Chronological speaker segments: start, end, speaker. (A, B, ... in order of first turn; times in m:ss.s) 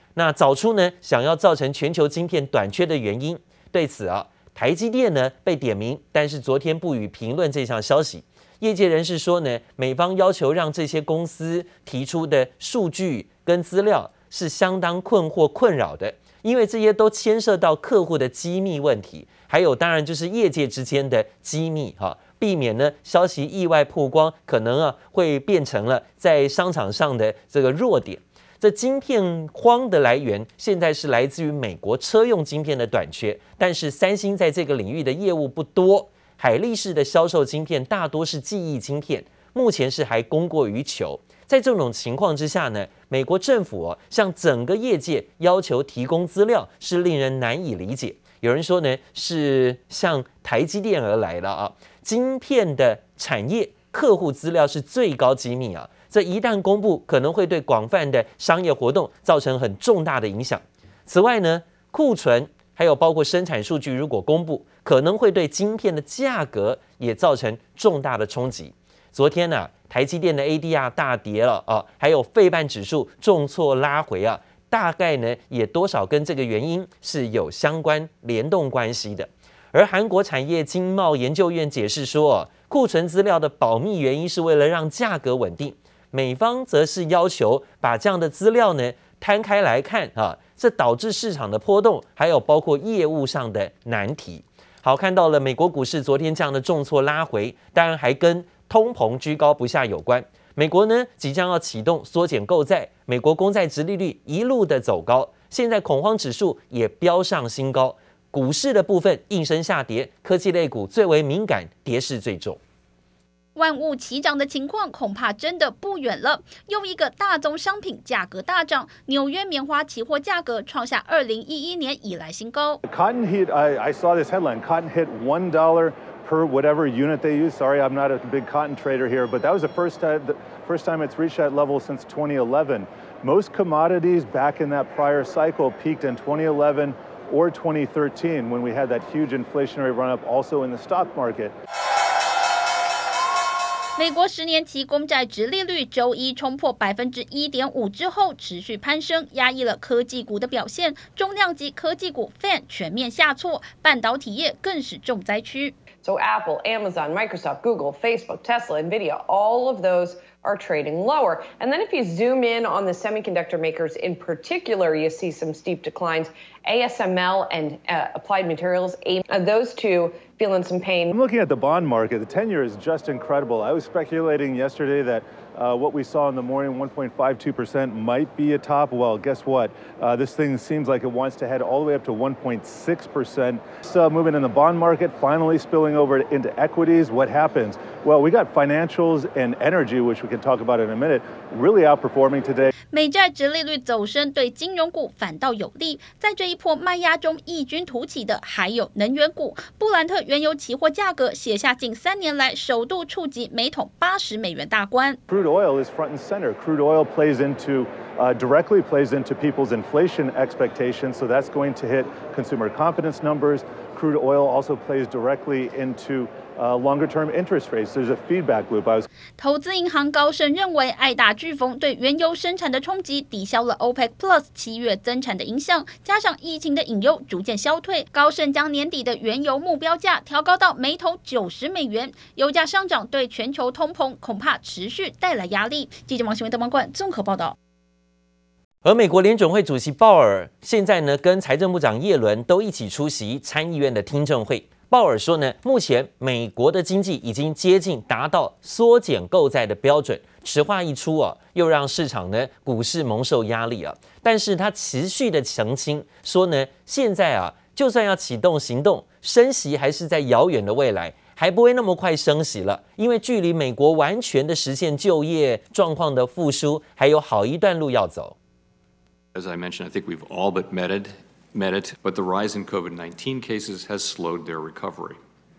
0:00.2-1:52.6 A
1:53.6-2:02.8 B
2:02.8-2:21.5 C
2:24.0-2:35.7 B
2:36.0-2:51.1 D
2:51.1-3:12.7 C
3:12.9-3:25.2 B
3:25.3-3:39.0 C
3:39.4-3:57.5 B
3:58.8-4:28.4 A
4:29.3-4:35.2 E